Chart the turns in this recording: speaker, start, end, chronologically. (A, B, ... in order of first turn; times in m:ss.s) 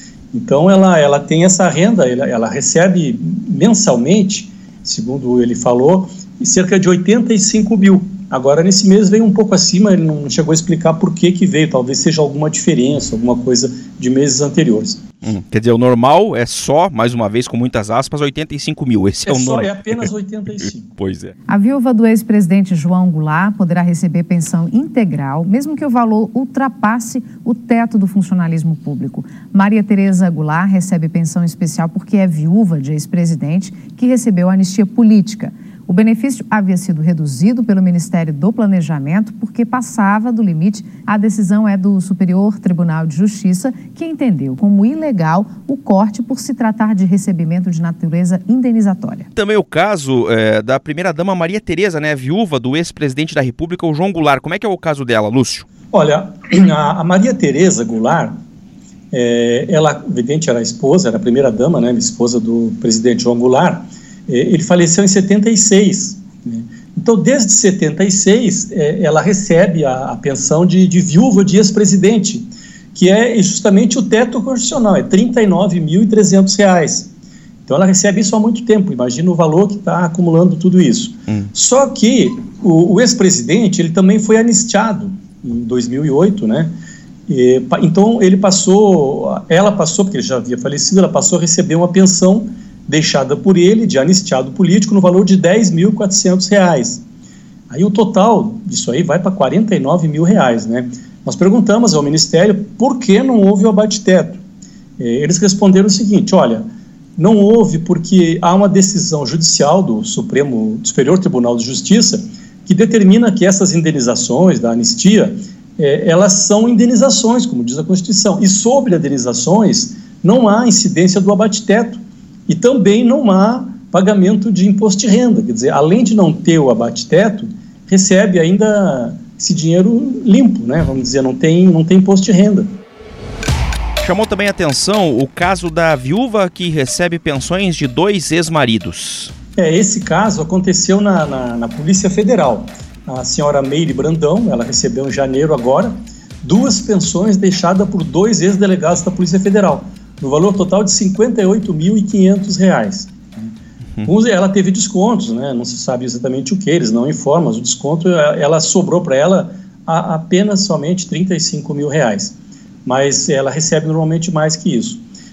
0:00.3-0:15.0 A
0:15.2-0:21.3 B
0:19.2-0:20.9 A
0:21.5-0:49.3 C
0:49.4-0:55.7 B
0:55.9-0:58.3 A
0:59.1-1:17.1 A
1:17.6-1:26.7 A
1:27.3-1:37.0 A
1:37.7-1:44.4 A
1:45.0-1:46.6 A
1:47.2-2:12.7 A
2:14.0-2:19.3 B
2:19.6-2:33.5 A
2:34.0-2:45.0 A